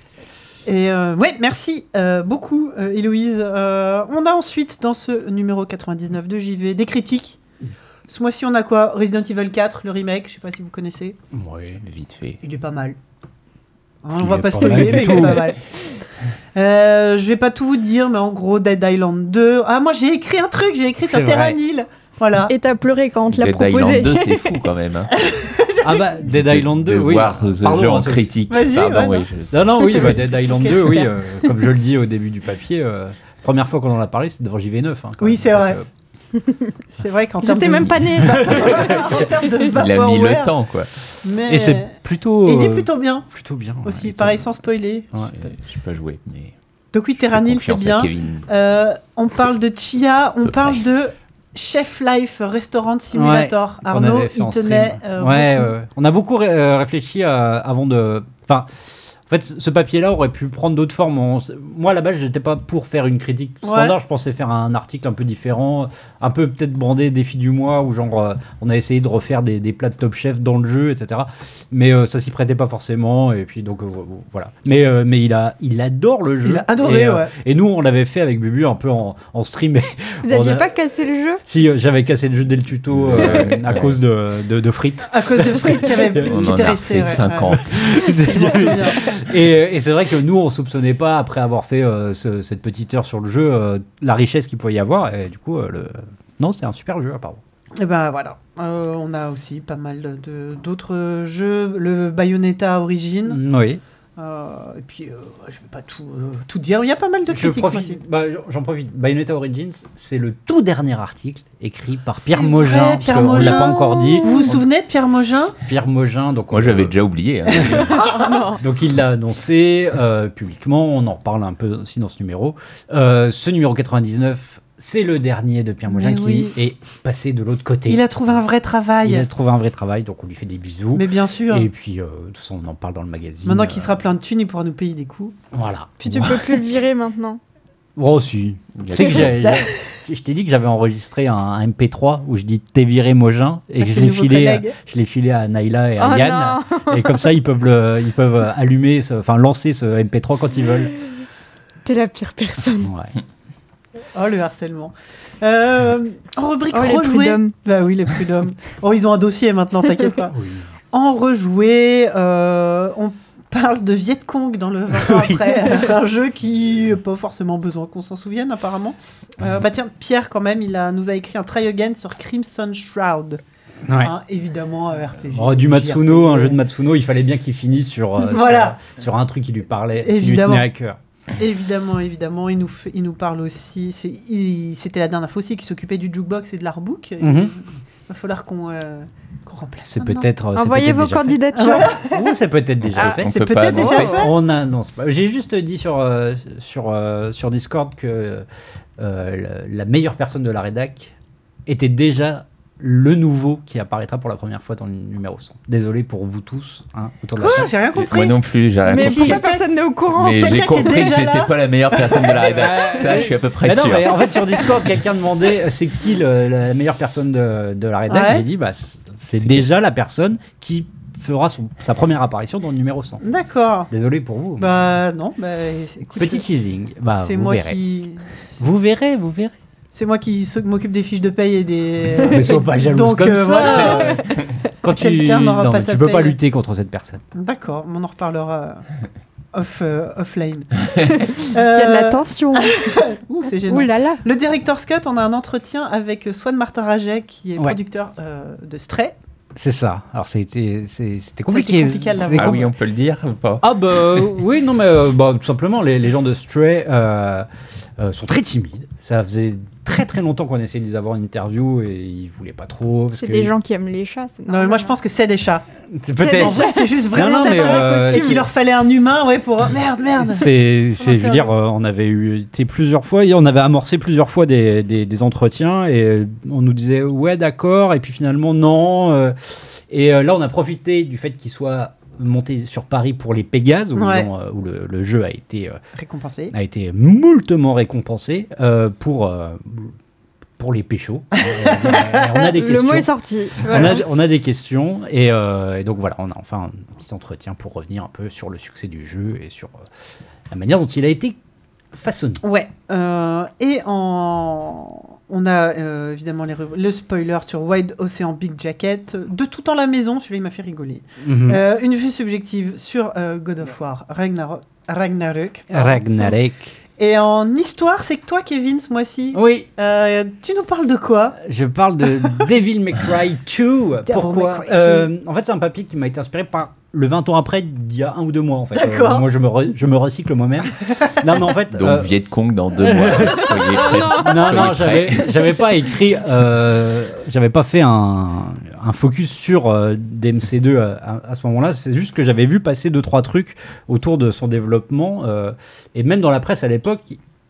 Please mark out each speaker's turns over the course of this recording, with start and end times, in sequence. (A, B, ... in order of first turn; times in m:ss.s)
0:00.7-0:07.4 A
0:08.1-0:11.2 A
0:11.3-0:11.8 B
0:11.8-0:12.4 C
0:12.4-0:13.0 A
0:14.0-0:15.6 A
0:14.2-0:15.5 B
0:16.6-0:22.5 A
0:21.0-0:21.6 B
0:22.5-0:24.6 D
0:23.3-0:25.1 C
0:25.1-0:26.0 A
0:25.8-0:28.3 B
0:26.2-0:30.1 C
0:28.5-0:29.3 A
0:29.5-0:35.8 B
0:30.1-0:31.1 A
0:35.2-0:35.8 A
0:36.9-0:40.5 A
0:37.4-0:39.2 D
0:38.4-0:38.7 B
0:39.7-0:40.9 C
0:41.2-0:43.3 A
0:41.5-0:44.5 B
0:43.8-0:45.1 A
0:45.4-0:46.5 C
0:46.9-0:55.7 A
0:47.3-0:48.5 C
0:50.4-0:50.8 C
0:53.1-1:20.7 B
1:03.6-1:04.0 A
1:16.4-1:17.3 A
1:20.2-1:21.4 D
1:21.5-1:26.4 B
1:22.9-1:24.0 C
1:25.1-1:29.1 A
1:26.2-1:28.0 C
1:27.5-1:37.4 B
1:37.8-1:43.4 A
1:43.3-1:43.8 B
1:44.2-1:48.0 A
1:47.3-1:54.6 B
1:52.2-1:55.6 A
1:53.1-1:54.6 D
1:55.6-1:57.0 B
1:56.5-1:58.0 C
1:57.5-2:08.2 B
1:57.6-1:58.6 D
2:05.9-2:06.6 A
2:07.9-2:09.3 A
2:09.0-2:14.0 B
2:10.9-2:11.7 A
2:13.4-2:15.4 A
2:15.5-2:16.5 B
2:16.0-2:17.4 D
2:18.0-2:30.9 B
2:18.8-2:19.5 C
2:19.4-2:19.7 A
2:23.8-2:24.8 A
2:26.0-2:27.3 D
2:31.8-2:32.9 D
2:32.8-2:33.2 B
2:34.2-2:40.4 A
2:36.7-2:37.5 D
2:40.3-2:40.7 B
2:40.9-2:53.4 A
2:45.1-2:45.4 B
2:53.9-2:54.1 B
2:54.0-2:56.6 A
2:55.3-3:01.0 B
2:58.2-2:58.8 A
3:00.0-3:00.7 A
3:01.4-3:10.3 A
3:07.2-3:07.5 B
3:09.8-3:18.5 B
3:10.6-3:12.0 D
3:11.5-3:12.4 A
3:12.9-3:14.1 C
3:13.0-3:14.3 A
3:13.8-3:14.3 D
3:19.0-3:21.1 B
3:21.7-3:27.7 B
3:27.4-3:28.4 A
3:27.9-3:29.4 C
3:28.9-3:31.2 D
3:28.9-3:29.7 A
3:30.1-3:34.7 C
3:30.2-3:33.2 A
3:32.3-3:43.2 B
3:38.1-3:38.5 A
3:43.2-3:43.9 A
3:43.9-3:44.7 B
3:44.6-3:46.5 A
3:46.2-3:47.8 B
3:47.2-3:48.6 A
3:48.6-3:49.5 B
3:49.9-3:54.2 A
3:52.2-3:54.3 B
3:54.8-3:57.2 B
3:54.9-3:56.4 A
3:57.4-3:58.9 A
3:59.5-4:09.2 A
4:01.3-4:03.0 D
4:03.7-4:04.2 D
4:09.6-4:12.7 B
4:11.5-4:12.7 A
4:12.3-4:13.6 C
4:13.6-4:17.5 B
4:18.0-4:23.5 B
4:23.1-4:25.0 D
4:24.5-4:25.6 A
4:25.9-4:26.6 B
4:26.2-4:28.4 D
4:26.4-4:31.5 A
4:27.1-4:28.5 B
4:30.2-4:45.8 B
4:44.0-4:44.3 A
4:46.0-4:46.5 A
4:46.5-4:49.9 B
4:50.6-4:59.7 B
4:51.4-4:52.2 A
4:52.4-4:54.0 D
5:00.5-5:01.4 B
5:01.9-5:02.4 B
5:02.4-5:16.3 A
5:11.2-5:11.6 B
5:15.7-5:16.8 B
5:17.0-5:21.4 A
5:19.3-5:19.7 B
5:21.4-5:32.2 B
5:24.1-5:25.1 A
5:28.8-5:29.3 A
5:30.8-5:31.2 A
5:31.7-5:35.5 C
5:32.7-5:47.2 B
5:33.6-5:34.7 D